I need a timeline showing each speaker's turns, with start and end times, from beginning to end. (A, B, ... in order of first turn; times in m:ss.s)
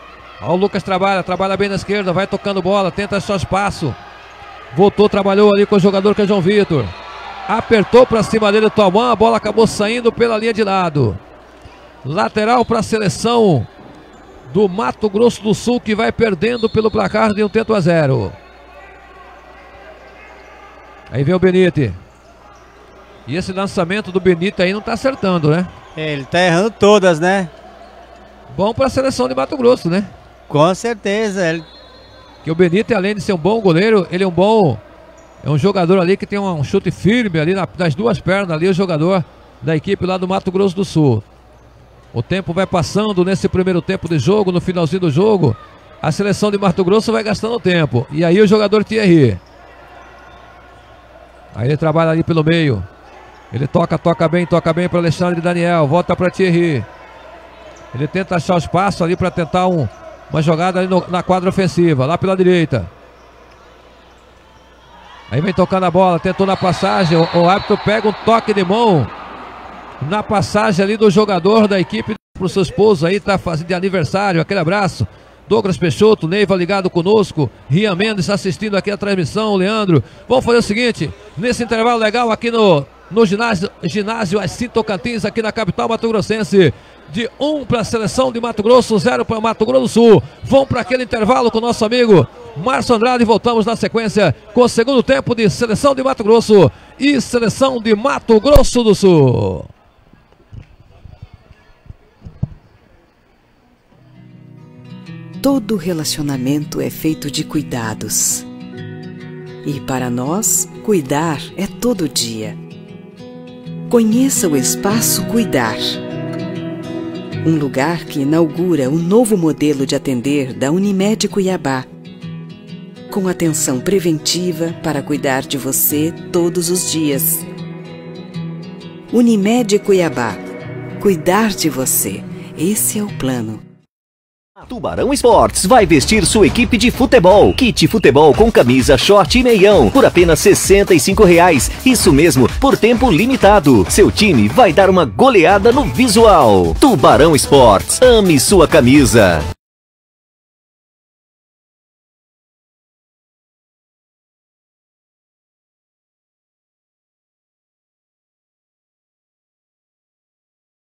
0:00.4-0:04.0 A
0:04.7-0:06.9 A
0:07.5-0:11.2 A
0:12.0-0:13.7 A
0:14.4-0:18.4 A
0:21.1-0:22.0 A
0:23.3-0:25.7 A
0:26.0-0:27.5 B
0:28.5-0:30.1 A
0:30.5-0:31.7 B
0:32.4-0:34.8 A
0:35.4-0:41.2 A
0:42.1-0:49.4 A
0:51.5-0:52.9 A
0:53.5-0:56.9 A
0:57.9-1:02.9 A
1:05.3-1:09.1 A
1:10.0-1:39.7 A
1:45.4-1:48.4 C
1:49.6-1:52.6 C
1:53.9-1:56.0 C
1:57.4-2:01.9 C
2:03.1-2:07.5 C
2:09.1-2:10.4 C
2:11.0-2:13.6 C
2:14.6-2:29.5 D